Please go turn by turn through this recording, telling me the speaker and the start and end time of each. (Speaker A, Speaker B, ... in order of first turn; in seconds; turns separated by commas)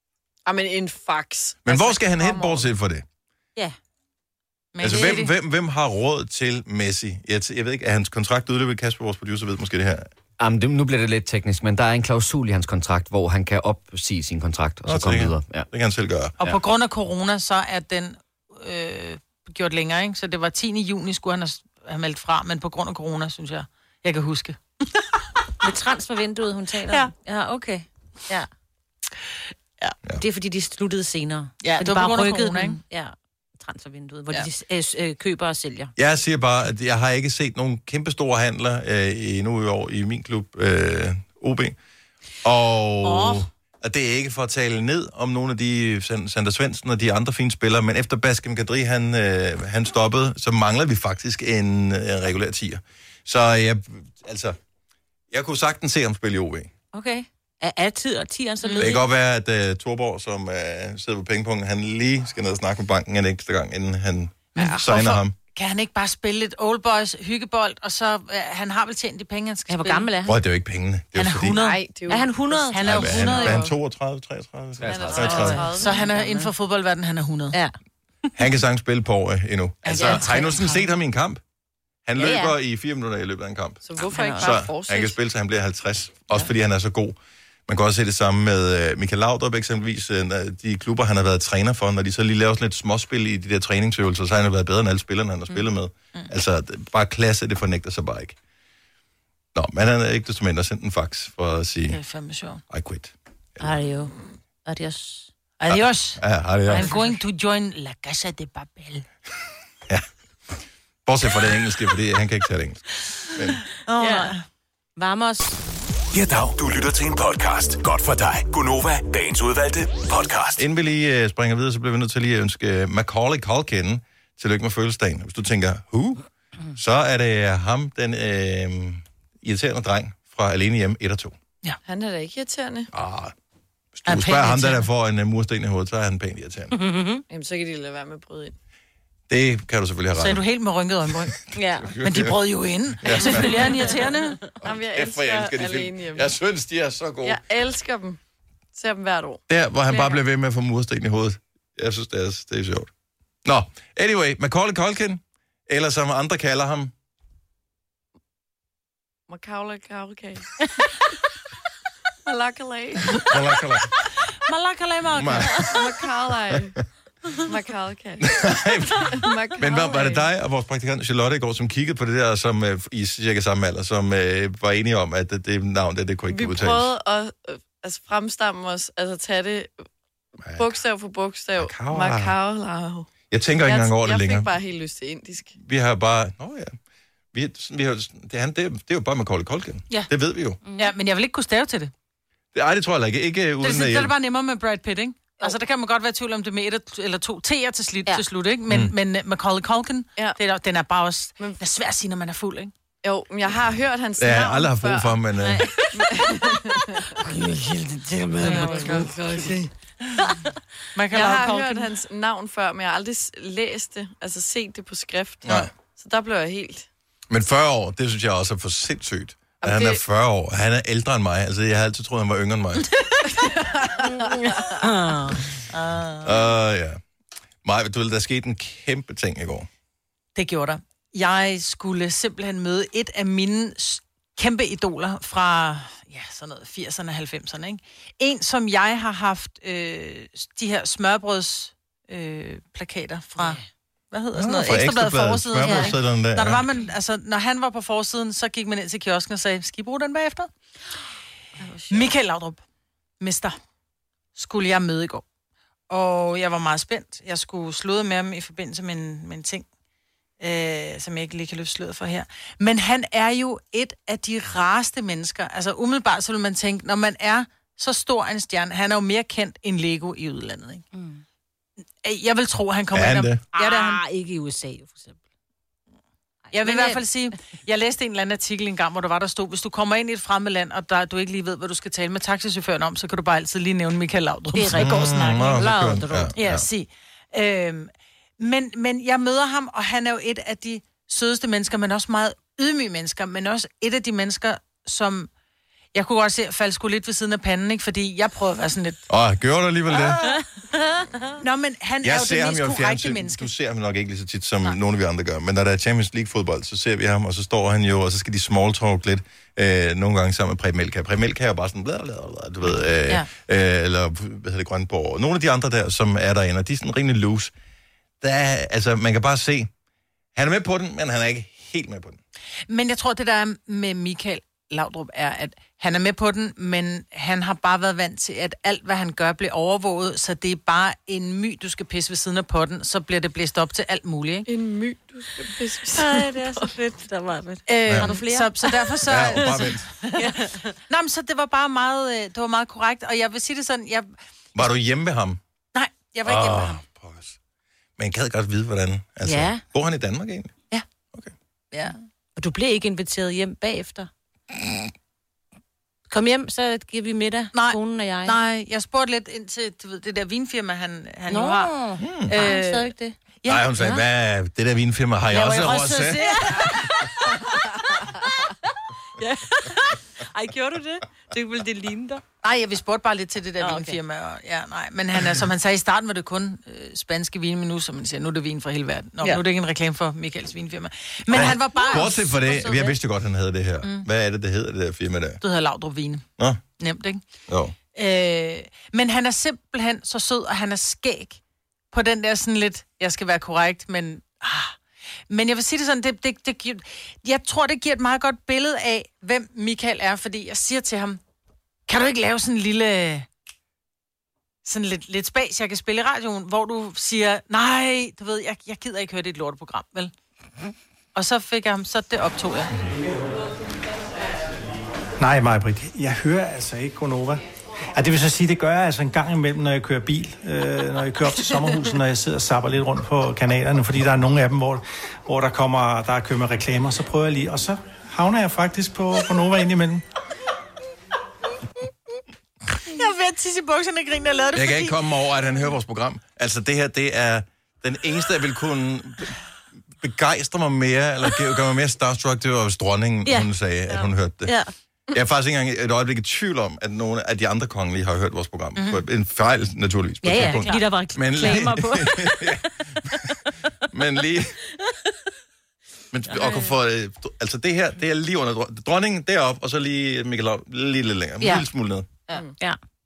Speaker A: 0.5-2.7, Speaker B: 1.6-3.0, Speaker C: 4.8-5.3, Speaker B: 4.8-10.1, Speaker D: 10.4-15.7, Speaker B: 14.9-16.4, Speaker C: 16.4-25.0, Speaker E: 25.6-28.5, Speaker E: 30.2-35.9, Speaker C: 31.6-32.8, Speaker B: 36.0-41.8, Speaker B: 42.4-54.6, Speaker E: 43.0-43.5, Speaker B: 55.3-56.7, Speaker E: 56.9-59.0, Speaker B: 58.8-65.3, Speaker C: 64.5-70.1, Speaker E: 69.7-70.4, Speaker B: 70.3-71.6, Speaker C: 71.2-71.8, Speaker A: 71.6-73.7, Speaker E: 72.1-73.5, Speaker C: 72.7-73.7, Speaker B: 72.8-75.7, Speaker A: 74.8-76.4, Speaker E: 75.1-76.2, Speaker C: 75.1-77.6, Speaker B: 78.4-81.4, Speaker C: 79.8-80.8, Speaker B: 82.1-83.8, Speaker E: 82.2-82.5, Speaker A: 83.8-85.2, Speaker E: 84.1-84.5, Speaker B: 84.4-87.2, Speaker B: 87.7-98.4, Speaker B: 99.5-102.0, Speaker C: 101.9-102.6, Speaker B: 102.7-103.8, Speaker E: 103.6-104.1, Speaker E: 104.7-105.3, Speaker C: 105.6-109.1, Speaker B: 105.7-106.9, Speaker E: 106.7-107.0, Speaker B: 111.1-113.6, Speaker C: 113.9-114.4, Speaker E: 114.0-114.3, Speaker E: 115.0-115.6, Speaker F: 116.1-120.6, Speaker B: 120.6-131.4, Speaker A: 131.8-132.9, Speaker B: 132.9-133.3, Speaker B: 134.0-136.7, Speaker C: 134.1-134.9, Speaker E: 136.7-137.2, Speaker A: 137.3-138.6, Speaker B: 139.3-140.4, Speaker C: 140.2-141.4, Speaker E: 141.5-141.9, Speaker B: 141.8-142.4, Speaker C: 142.0-144.4, Speaker B: 143.0-143.6, Speaker E: 143.2-144.1, Speaker B: 144.6-147.4, Speaker A: 144.6-146.3, Speaker A: 147.2-148.2, Speaker A: 148.8-150.2, Speaker B: 149.5-152.9, Speaker B: 153.4-156.9, Speaker A: 159.3-160.7, Speaker A: 162.3-163.3, Speaker B: 163.2-163.9, Speaker C: 164.4-165.7, Speaker B: 165.2-165.8, Speaker A: 165.6-166.7, Speaker A: 167.4-168.3, Speaker B: 168.2-176.9, Speaker A: 168.9-170.3, Speaker A: 176.3-179.7, Speaker B: 180.4-180.8, Speaker A: 180.6-183.1, Speaker B: 181.6-182.4, Speaker B: 183.3-184.5, Speaker A: 183.6-185.6, Speaker B: 185.6-186.8, Speaker B: 187.3-190.6, Speaker E: 190.6-190.9, Speaker C: 190.8-191.9, Speaker B: 192.5-194.1, Speaker C: 193.6-202.7, Speaker A: 203.0-205.2, Speaker B: 204.2-205.7, Speaker E: 205.4-206.5, Speaker A: 205.9-207.1, Speaker E: 207.2-209.2, Speaker C: 208.4-209.0, Speaker A: 208.4-209.6, Speaker C: 210.9-211.9, Speaker A: 211.1-216.9, Speaker B: 215.4-215.7, Speaker B: 217.3-222.8, Speaker A: 219.6-220.0, Speaker A: 223.2-224.7, Speaker E: 224.7-225.4, Speaker C: 225.7-226.4, Speaker B: 226.2-227.0, Speaker B: 227.6-229.7, Speaker C: 230.4-243.6, Speaker E: 243.4-243.7, Speaker C: 244.1-250.5, Speaker B: 244.3-246.7, Speaker E: 245.6-246.0, Speaker E: 251.6-252.1, Speaker C: 251.9-252.6, Speaker C: 253.2-253.5, Speaker C: 254.4-255.2, Speaker C: 255.9-259.6, Speaker C: 260.4-270.8, Speaker E: 270.9-271.2, Speaker C: 272.0-274.0, Speaker B: 272.9-273.4, Speaker E: 273.5-275.2, Speaker E: 276.5-277.1, Speaker C: 276.5-285.7, Speaker E: 284.5-286.4, Speaker B: 284.7-286.6, Speaker C: 286.4-295.3, Speaker C: 295.9-299.0, Speaker B: 299.1-300.3, Speaker E: 300.1-301.4, Speaker C: 301.4-303.5, Speaker B: 302.0-317.5, Speaker B: 318.2-319.7, Speaker B: 320.4-322.2, Speaker C: 322.7-334.5, Speaker A: 334.5-336.7, Speaker E: 335.9-340.8, Speaker C: 337.7-340.4, Speaker B: 339.1-339.9, Speaker C: 340.9-344.1, Speaker B: 344.6-345.4, Speaker C: 345.7-346.8, Speaker B: 346.2-347.4, Speaker B: 348.0-350.5, Speaker E: 349.2-349.6, Speaker E: 352.4-354.1, Speaker E: 356.1-358.4, Speaker C: 357.5-361.8, Speaker E: 361.3-363.2, Speaker B: 362.0-362.3, Speaker C: 362.3-362.9, Speaker B: 363.5-366.2, Speaker E: 363.8-364.0, Speaker E: 365.3-368.5, Speaker C: 365.6-366.4, Speaker E: 369.2-372.2, Speaker C: 372.4-382.9, Speaker E: 373.6-374.0, Speaker B: 381.3-385.4, Speaker E: 381.4-382.9, Speaker C: 385.4-386.3, Speaker C: 386.8-387.2, Speaker B: 387.5-387.8, Speaker C: 387.9-391.4, Speaker C: 391.9-394.8, Speaker C: 395.3-401.2, Speaker C: 401.9-403.3, Speaker C: 404.6-410.1, Speaker C: 411.1-412.7, Speaker G: 415.2-417.4, Speaker G: 417.9-430.0, Speaker C: 432.9-435.0, Speaker B: 434.6-439.4, Speaker B: 440.0-444.5, Speaker E: 444.4-444.7, Speaker B: 445.1-453.3, Speaker E: 450.2-452.6, Speaker C: 450.4-451.6, Speaker B: 453.9-454.6, Speaker B: 456.1-462.1, Speaker E: 456.3-456.7, Speaker E: 461.4-461.7, Speaker E: 462.3-462.8